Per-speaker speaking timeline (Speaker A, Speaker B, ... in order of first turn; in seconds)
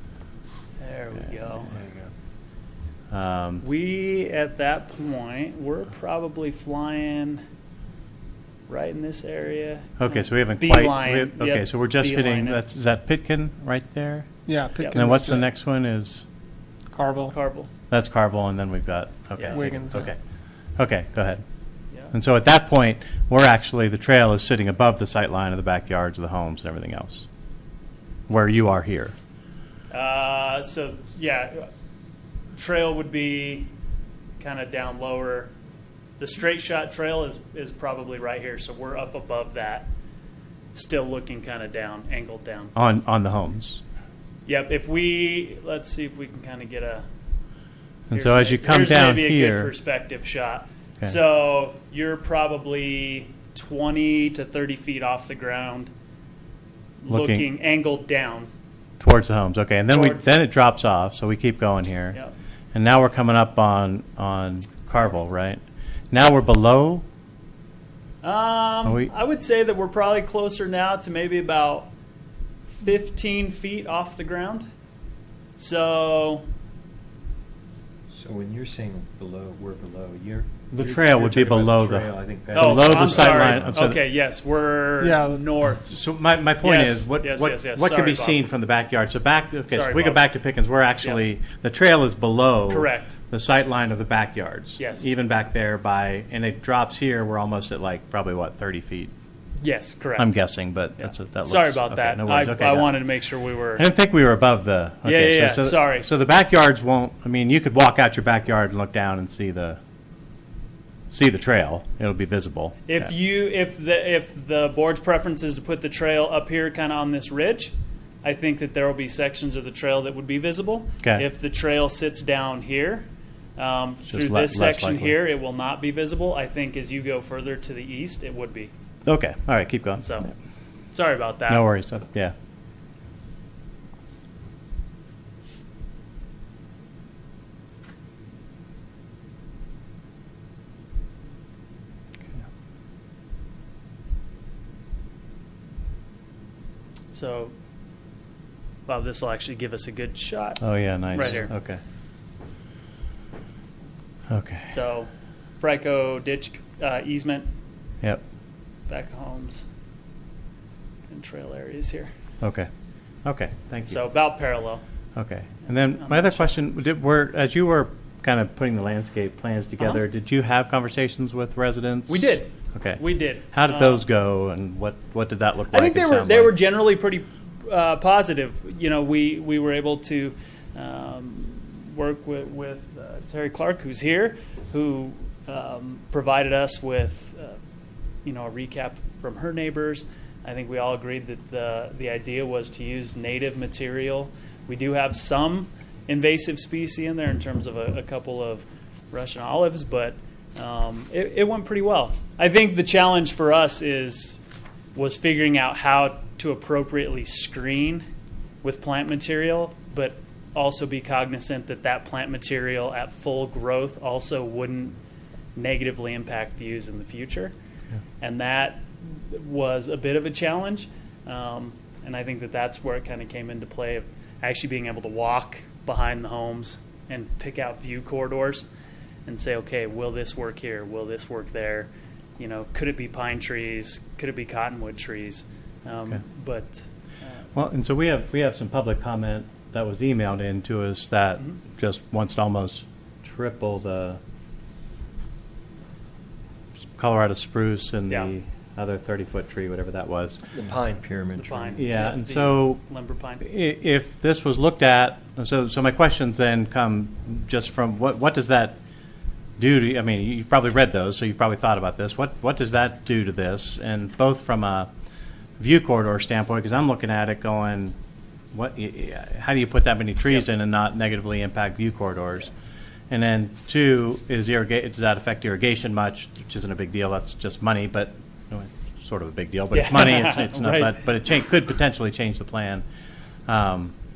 Speaker A: 0.8-1.7, 3.6-7.4, 8.7-12.6, 14.8-15.2, 17.3-17.7, 19.4-19.6, 29.9-31.7, 32.5-33.7, 34.4-35.5, 36.2-39.9, 40.7-42.7, 44.5-47.0, 48.1-55.9, 57.0-58.5, 59.9-60.4, 68.2-71.9, 72.7-74.7, 75.6-76.5, 82.5-85.9, 86.6-88.4, 89.7-90.3, 92.7-93.2, 94.8-95.1, 99.6-100.3, 101.0-103.8, 105.0-106.1, 112.9-123.0, 123.6-128.7, 130.0-130.3, 130.9-131.6, 147.1-147.5, 148.9-151.5, 154.7-157.5, 158.9-159.7, 161.1-162.1, 163.9-164.8, 166.0-166.5, 172.1-174.0, 175.7-187.6, 188.2-204.4, 204.9-208.1, 208.6-215.0, 215.6-217.5, 218.2-228.7, 229.3-237.4, 248.1-248.3, 251.4-253.4, 279.7-280.9
Speaker B: 1.8-2.1, 78.1-83.7, 250.5-251.9
Speaker C: 3.1-3.6, 10.0-14.3, 14.9-16.3, 17.9-20.2, 20.8-21.4, 22.1-27.3, 28.3-29.1, 42.8-43.8, 48.1-49.7, 57.1-57.5, 59.0-62.2, 62.7-67.0, 68.8-69.1, 80.7-84.0, 85.9-99.1, 100.2-103.0, 103.8-109.8, 111.1-112.9, 124.1-125.2, 129.1-130.1, 131.5-132.3, 150.6-151.8, 154.3-154.8, 162.4-162.7, 163.2-164.0, 165.2-176.5, 237.6-244.2, 247.0-250.4, 251.8-252.8, 253.4-258.8, 259.6-264.9, 265.6-267.9, 268.5-272.5, 273.1-282.8, 283.5-283.9
Speaker D: 14.5-15.4, 16.9-17.4, 19.5-20.1, 85.0-85.4